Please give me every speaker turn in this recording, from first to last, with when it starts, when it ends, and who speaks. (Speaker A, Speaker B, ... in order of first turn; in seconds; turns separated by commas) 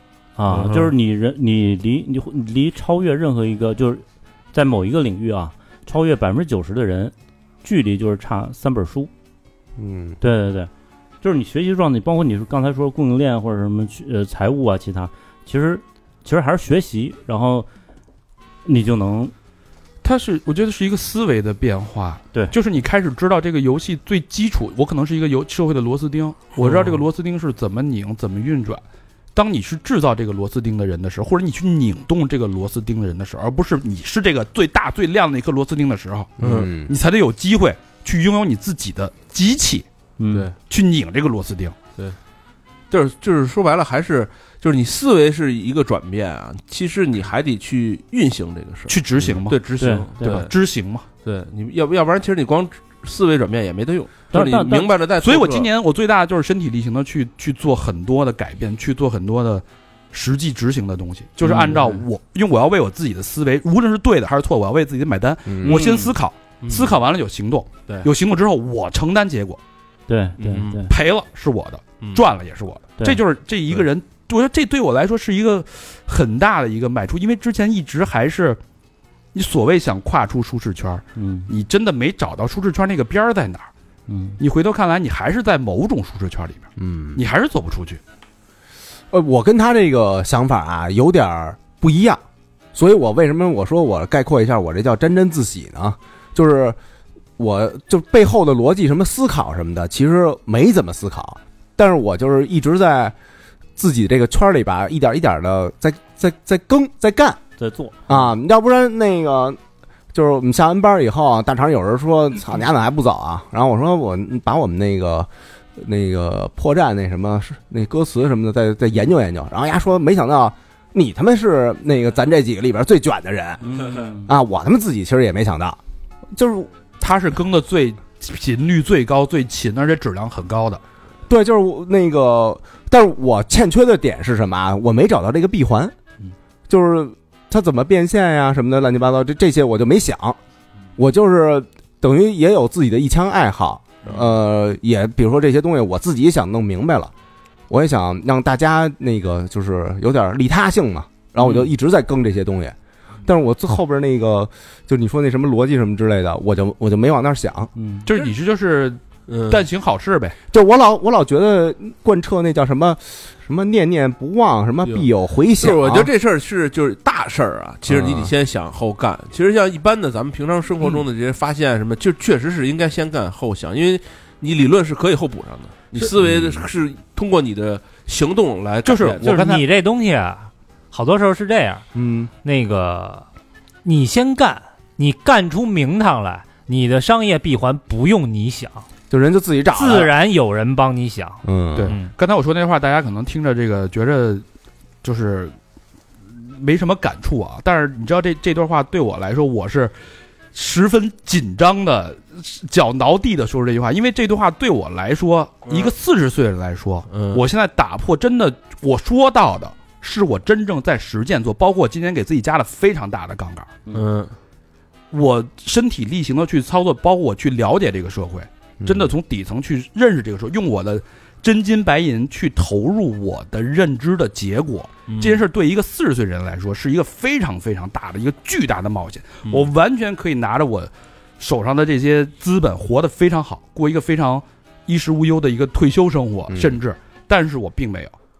Speaker A: 0.4-9.1, Speaker B: 0.5-0.9, Speaker C: 9.8-10.2, Speaker A: 10.2-10.7, Speaker A: 11.2-17.7, Speaker A: 18.6-19.3, Speaker D: 20.0-28.8, Speaker A: 26.6-26.9, Speaker D: 29.3-39.9, Speaker C: 36.4-36.9, Speaker B: 36.4-36.7, Speaker A: 40.2-40.5, Speaker B: 40.3-40.5, Speaker D: 40.7-41.8, Speaker B: 42.9-50.5, Speaker D: 48.9-51.0, Speaker A: 49.8-50.5, Speaker B: 51.2-55.7, Speaker A: 54.3-54.9, Speaker D: 55.2-69.6, Speaker B: 61.5-62.0, Speaker C: 65.5-65.8, Speaker A: 65.6-66.2, Speaker B: 66.6-67.0, Speaker A: 70.1-70.9, Speaker B: 70.4-70.8, Speaker D: 70.8-78.6, Speaker D: 79.3-83.7, Speaker A: 81.2-81.5, Speaker A: 84.1-84.4, Speaker D: 84.4-88.0, Speaker C: 86.8-87.2, Speaker C: 89.1-92.2, Speaker C: 92.7-96.8, Speaker C: 97.4-103.1, Speaker C: 103.8-107.4, Speaker A: 107.6-107.9, Speaker C: 108.1-109.6, Speaker C: 110.1-125.8, Speaker A: 123.7-124.3, Speaker C: 126.3-126.7, Speaker D: 127.0-130.8, Speaker C: 131.3-135.9, Speaker C: 136.7-140.4, Speaker C: 140.9-147.1, Speaker C: 147.7-157.7, Speaker A: 157.8-158.1, Speaker D: 158.0-160.3, Speaker B: 159.3-159.7, Speaker C: 160.5-166.1, Speaker B: 165.6-179.3, Speaker C: 167.9-168.3, Speaker C: 176.0-176.7, Speaker D: 178.8-179.6, Speaker E: 179.2-181.8, Speaker C: 181.9-182.3, Speaker E: 182.4-183.2, Speaker E: 183.8-188.8, Speaker C: 189.1-190.1, Speaker E: 189.7-192.1, Speaker C: 191.4-191.9, Speaker D: 191.8-194.4, Speaker D: 195.0-195.5, Speaker D: 196.3-199.9, Speaker D: 200.5-213.7, Speaker B: 205.7-205.9, Speaker B: 207.1-207.4, Speaker B: 213.9-214.3, Speaker D: 215.1-238.1, Speaker C: 218.8-219.1, Speaker B: 225.1-225.4, Speaker C: 236.5-236.8